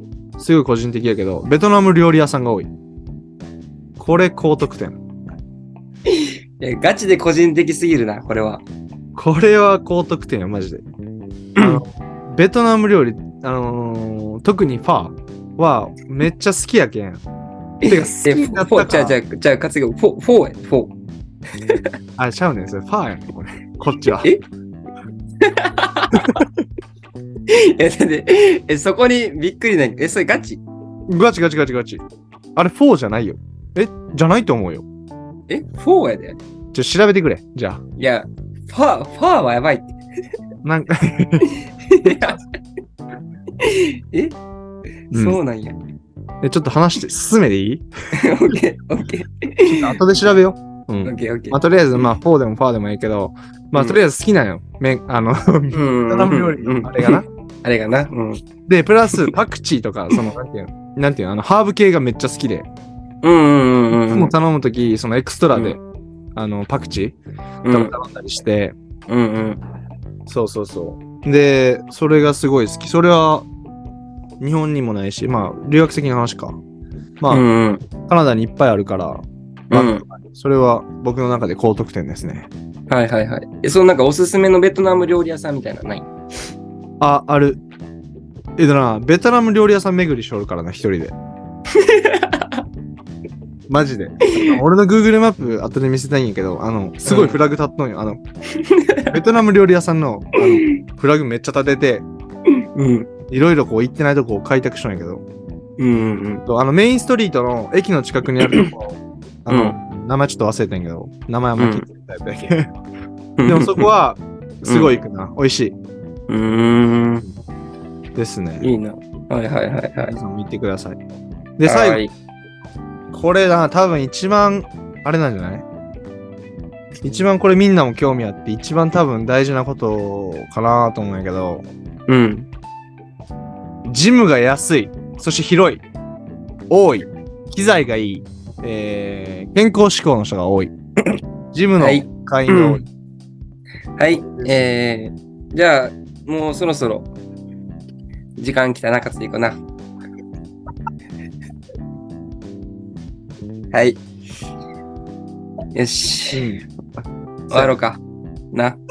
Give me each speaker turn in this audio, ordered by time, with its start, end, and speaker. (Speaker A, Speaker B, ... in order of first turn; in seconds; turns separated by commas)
Speaker A: 0.4-2.7, Speaker A: 4.0-5.0, Speaker B: 6.1-8.6, Speaker A: 9.1-10.8, Speaker B: 11.6-11.8, Speaker A: 11.6-17.2, Speaker B: 17.8-20.9, Speaker A: 17.9-19.2, Speaker A: 22.2-24.3, Speaker B: 25.4-26.4, Speaker A: 26.1-26.4, Speaker B: 27.5-30.6, Speaker A: 31.1-32.0, Speaker A: 32.5-34.9, Speaker B: 35.5-36.4, Speaker A: 36.7-37.8, Speaker B: 38.0-39.9, Speaker A: 40.6-41.5, Speaker B: 41.5-42.4, Speaker A: 42.0-42.4, Speaker B: 43.6-44.4, Speaker B: 45.1-45.8, Speaker A: 45.1-45.4, Speaker A: 46.4-47.9, Speaker B: 48.1-50.0, Speaker A: 49.6-57.2, Speaker B: 51.0-52.0, Speaker B: 55.7-58.4, Speaker A: 58.6-62.7, Speaker B: 63.2-64.3, Speaker A: 64.1-65.8, Speaker A: 66.3-68.7, Speaker B: 67.6-67.9, Speaker B: 69.1-69.6, Speaker A: 70.3-73.5, Speaker A: 74.4-76.6, Speaker B: 77.3-77.8, Speaker A: 78.1-82.5, Speaker B: 79.7-80.0, Speaker B: 82.9-86.1, Speaker A: 87.0-87.6, Speaker A: 88.6-91.1, Speaker B: 91.7-92.6, Speaker A: 93.7-98.2, Speaker B: 94.2-94.6, Speaker B: 97.0-97.4, Speaker B: 98.5-99.1, Speaker A: 99.1-102.0, Speaker B: 100.4-100.8, Speaker B: 102.5-103.1, Speaker A: 103.3-105.2, Speaker B: 105.8-106.4, Speaker A: 106.5-112.7, Speaker B: 108.4-108.7, Speaker B: 109.5-109.8, Speaker B: 111.6-111.8, Speaker B: 113.4-113.9, Speaker A: 113.4-115.8, Speaker B: 114.6-115.0, Speaker B: 116.3-117.3, Speaker A: 118.1-118.7, Speaker B: 118.6-120.1, Speaker A: 120.1-121.0, Speaker A: 121.6-122.0, Speaker B: 121.6-122.1, Speaker A: 123.1-125.6, Speaker A: 127.0-131.7, Speaker B: 132.1-132.5, Speaker A: 133.8-135.8, Speaker A: 136.7-140.7, Speaker A: 141.5-142.8, Speaker B: 141.8-142.8, Speaker B: 144.0-147.1, Speaker A: 144.4-144.6, Speaker B: 148.4-149.6, Speaker B: 153.7-154.0, Speaker B: 155.7-156.5, Speaker A: 156.3-156.7, Speaker A: 157.5-157.8, Speaker B: 157.5-158.8